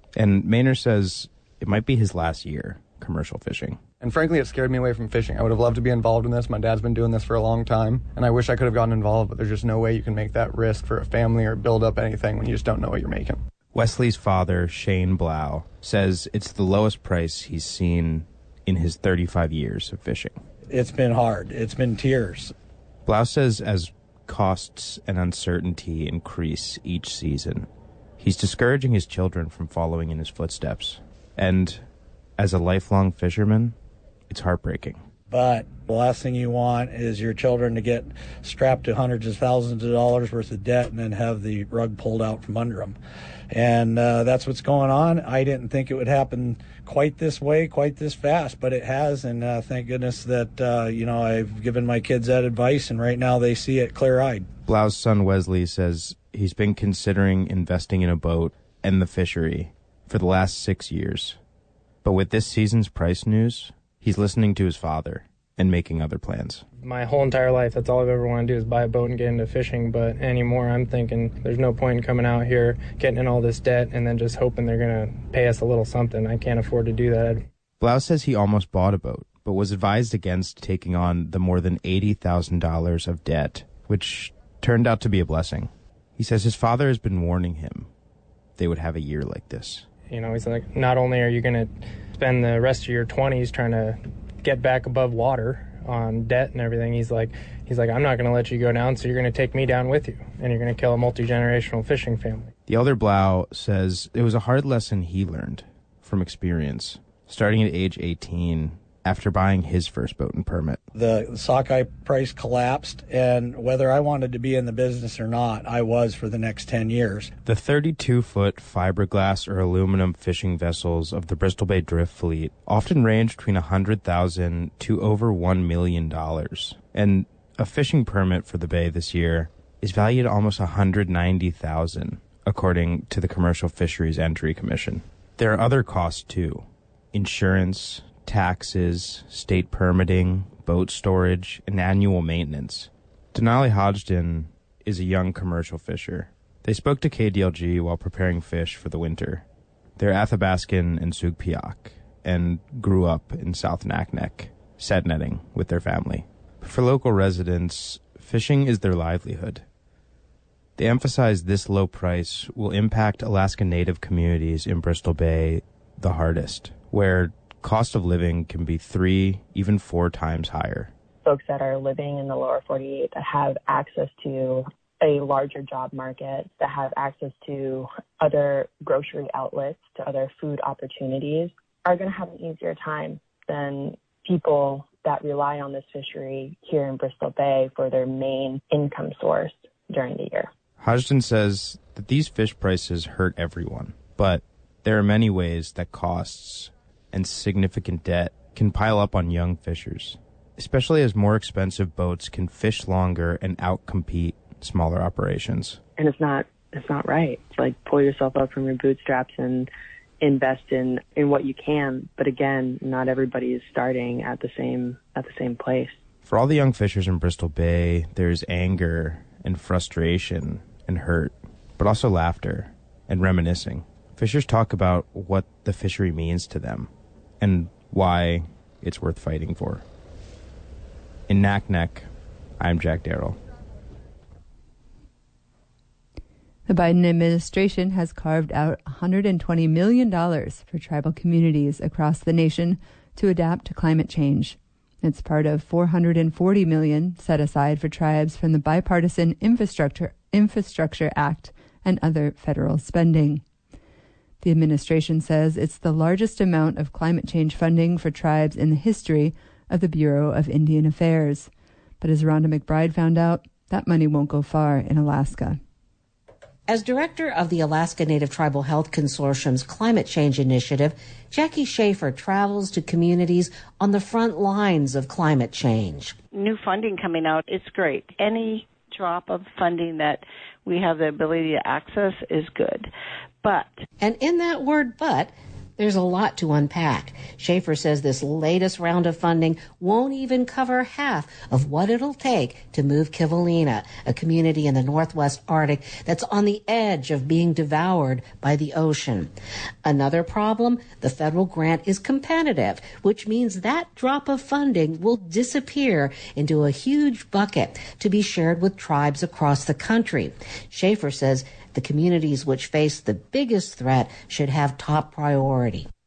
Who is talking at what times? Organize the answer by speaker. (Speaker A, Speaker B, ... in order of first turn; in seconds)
Speaker A: 0.1-3.8, 13.7-20.4, 23.1-27.7, 28.2-31.8, 32.4-33.7, 34.3-35.0, 54.6-61.4, 62.0-66.6, 77.8-87.9, 88.6-89.8, 102.7-110.8, 117.4-149.4, 150.0-159.6, 160.8-170.9, 190.8-205.8, 216.2-229.8, 231.3-232.1, 232.6-233.4
Speaker B: 4.0-13.4
Speaker C: 20.7-22.5, 35.3-43.0, 43.5-54.5, 110.9-117.3
Speaker D: 66.8-77.4, 90.1-102.5
Speaker E: 171.2-190.5, 206.0-209.7, 210.2-215.9
Speaker F: 236.7-253.4, 254.4-261.5, 262.0-265.6
Speaker G: 266.7-276.1, 284.0-299.3, 299.8-315.9
Speaker H: 276.3-282.9, 283.4-283.7